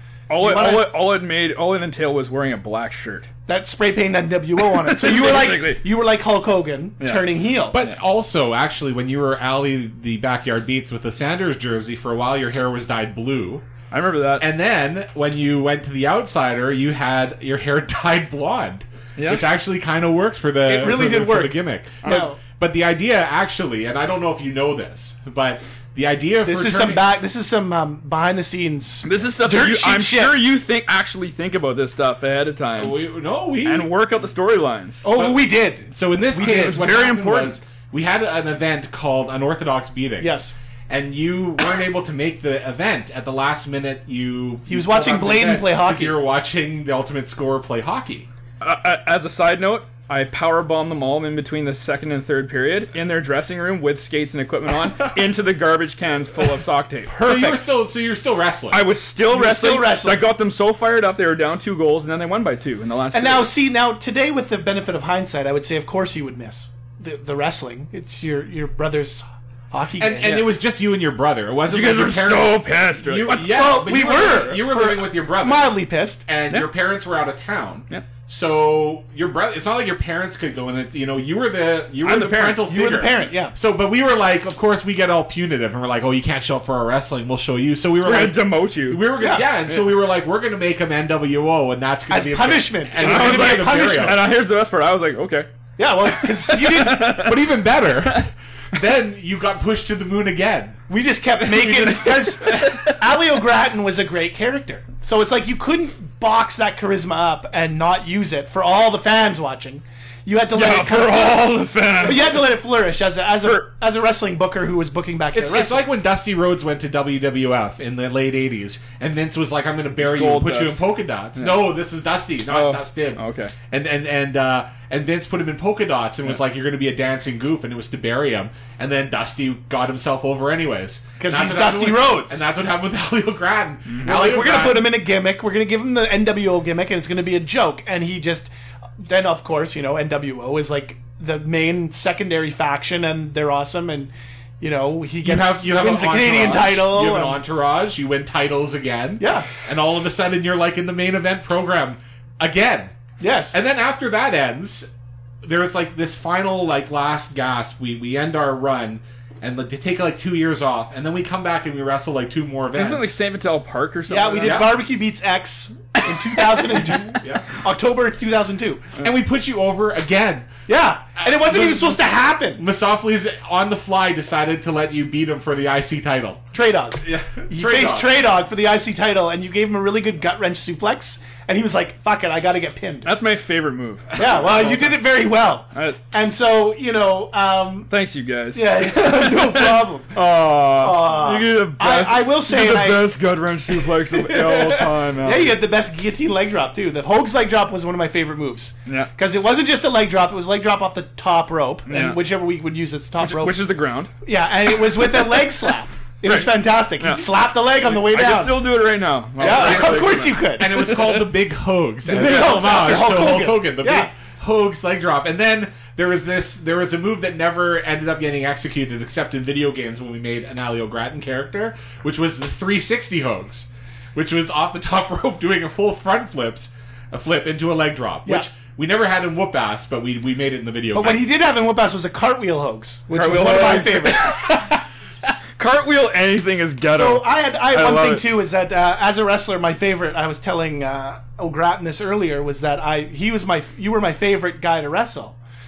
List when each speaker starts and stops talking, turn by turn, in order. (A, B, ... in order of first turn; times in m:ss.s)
0:00.3-0:03.3 A
0:00.4-0:01.0 B
0:03.5-0:07.8 B
0:04.8-0:05.8 A
0:07.0-0:07.2 A
0:07.7-0:13.6 C
0:13.9-0:14.5 A
0:14.4-0:27.0 C
0:19.2-0:19.4 A
0:20.6-0:22.4 B
0:22.0-0:22.3 A
0:26.4-0:30.4 B
0:29.0-0:33.0 A
0:32.8-0:33.9 C
0:33.6-0:35.0 A
0:35.0-0:36.9 B
0:35.1-0:48.3 C
0:36.3-0:37.6 A
0:40.2-0:40.5 B
0:44.7-0:46.2 B
0:48.6-0:57.2 A
0:57.1-0:57.7 B
0:57.2-0:58.8 C
0:58.7-1:03.5 A
0:59.3-1:00.2 B
1:03.1-1:10.6 B
1:10.0-1:15.7 C
1:11.7-1:13.5 A
1:13.4-1:16.2 B
1:16.2-1:34.2 C
1:22.0-1:22.6 A
1:22.5-1:23.5 B
1:28.0-1:29.1 A
1:29.2-1:29.5 B
1:32.1-1:34.2 B
1:33.0-1:35.5 A
1:35.8-1:37.2 B
1:36.1-1:38.2 A
1:37.2-1:40.8 C
1:40.9-1:51.4 B
1:41.6-1:43.0 A
1:50.5-1:52.4 A
1:52.0-1:55.8 B
1:55.3-2:14.9 C
2:00.0-2:01.7 A
2:02.5-2:03.5 A
2:11.2-2:12.4 B
2:14.0-2:27.4 B
2:25.2-2:33.0 C
2:29.2-2:29.5 B
2:33.2-2:33.5 B
2:33.5-2:34.9 C
2:35.4-2:43.2 C
2:42.7-2:44.8 A
2:44.1-2:48.9 B
2:44.4-2:44.7 C
2:46.5-2:47.0 A
2:47.2-2:47.5 C
2:49.0-2:50.5 C
2:50.7-2:52.6 B
2:51.2-2:56.4 C
2:56.5-3:03.1 B
2:57.0-2:58.1 C
3:03.0-3:05.0 A
3:04.1-3:07.9 B
3:05.7-3:06.0 A
3:07.9-3:15.6 A
3:08.5-3:10.2 B
3:10.8-3:23.6 B
3:18.9-3:19.1 A
3:21.9-3:22.2 A
3:23.2-3:24.1 A
3:24.2-3:28.6 B
3:26.2-3:27.2 A
3:27.8-3:31.2 A
3:29.4-3:30.7 B
3:29.4-3:51.2 C
3:32.1-3:34.1 B
3:50.9-3:54.6 B
3:53.1-3:54.8 A
3:55.6-3:58.2 A
3:56.9-4:05.4 B